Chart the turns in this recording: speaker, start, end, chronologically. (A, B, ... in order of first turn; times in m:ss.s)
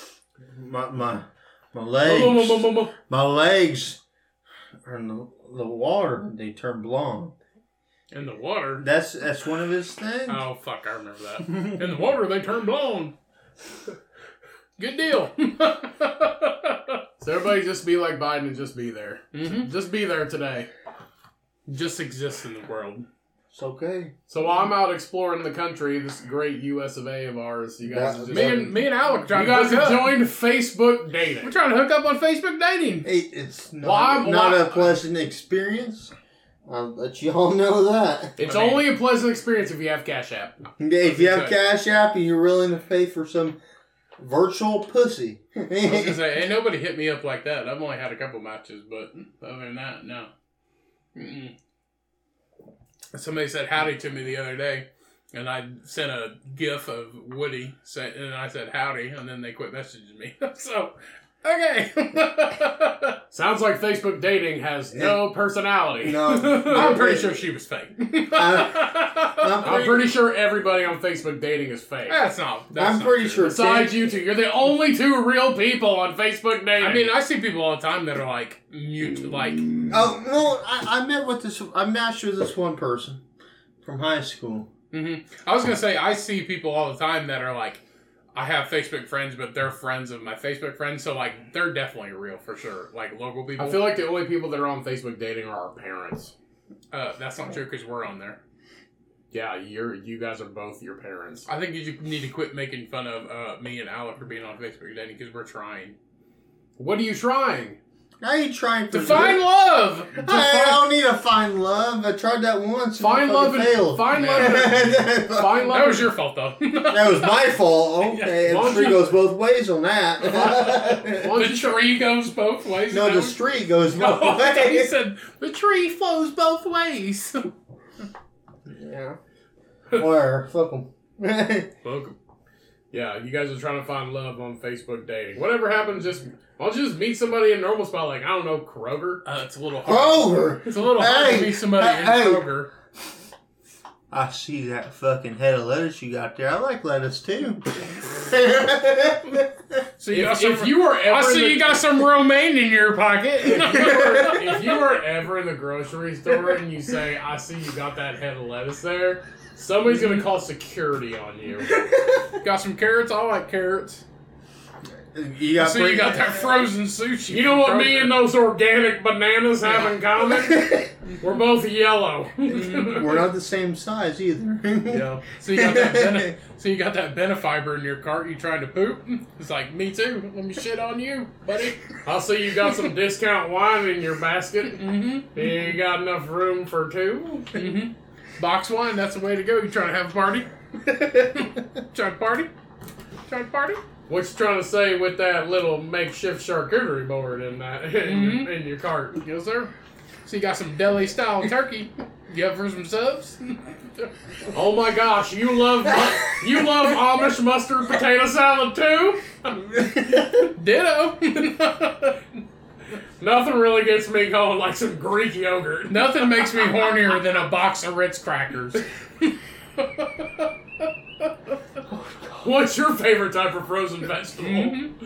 0:00.4-0:04.0 A
0:02.0-0:02.8 B
0:02.5-0:02.8 C
0:04.8-0:07.3 A
0:08.1-0:08.8 C
0:08.8-0:10.5 A
0:10.3-0:13.1 C
0:14.8-0:17.0 C
0:17.2-0:20.7 B
0:19.3-0:19.7 C
0:21.7-0:23.1 C
0:23.5-0:24.1 A
0:24.3-0:28.8 B
0:27.8-0:28.8 A
0:28.3-0:30.2 C
0:29.3-0:31.5 B
0:31.4-0:33.1 C
0:33.0-0:36.1 A
0:33.8-0:34.9 C
0:34.3-0:34.6 B
0:36.7-0:38.4 A
0:38.4-0:40.7 B
0:38.5-0:38.9 C
0:40.8-0:43.6 A
0:41.0-0:41.6 C
0:44.2-0:46.3 A
0:45.8-0:50.3 C
0:51.2-0:51.5 C
0:53.1-1:03.2 C
1:03.3-1:07.5 B
1:04.9-1:05.2 A
1:06.0-1:07.4 A
1:06.6-1:09.9 C
1:08.2-1:10.1 A
1:09.6-1:12.2 B
1:12.1-1:13.5 C
1:12.8-1:14.0 A
1:13.4-1:17.2 B
1:16.8-1:19.8 C
1:19.9-1:23.2 A
1:23.8-1:24.7 A
1:24.9-1:27.8 C
1:28.3-1:34.0 C
1:33.6-1:36.3 B
1:36.9-1:38.4 C
1:39.3-1:41.5 B
1:41.5-1:46.0 C
1:46.8-1:47.8 B
1:48.2-1:49.4 A
1:48.9-1:50.8 C
1:50.2-1:55.7 A
1:53.0-1:56.1 B
1:54.1-1:57.4 C
1:56.9-2:01.4 A
1:58.1-1:58.3 C
1:58.4-1:59.1 B
2:00.3-2:01.8 B
2:01.3-2:03.4 C
2:02.9-2:04.9 A
2:03.9-2:07.5 C
2:08.7-2:09.2 A
2:09.9-2:11.7 A
2:11.8-2:12.1 C
2:12.9-2:19.2 B
2:19.2-2:22.7 C
2:19.8-2:22.6 A
2:24.1-2:29.8 A
2:30.0-2:34.7 C
2:30.1-2:31.8 B
2:33.5-2:34.4 A
2:33.8-2:41.7 B
2:39.9-2:40.2 C
2:41.7-2:42.4 A
2:42.4-2:44.0 C
2:45.1-2:46.7 A
2:45.6-2:48.2 C
2:47.3-2:53.1 B
2:50.4-2:50.9 A
2:52.5-2:53.2 C
2:52.7-2:56.4 A
2:54.9-3:01.9 C
3:02.0-3:07.6 B
3:04.7-3:05.6 C
3:07.5-3:12.5 C
3:13.3-3:13.8 C
3:14.1-3:19.2 B
3:18.0-3:18.5 C
3:19.2-3:19.7 C
3:20.2-3:24.1 C
3:24.5-3:29.3 B
3:29.7-3:30.4 A
3:30.1-3:32.2 C
3:33.2-3:36.7 B
3:35.9-3:40.5 C
3:41.9-3:42.5 A
3:42.4-3:44.8 B
3:44.4-3:44.9 C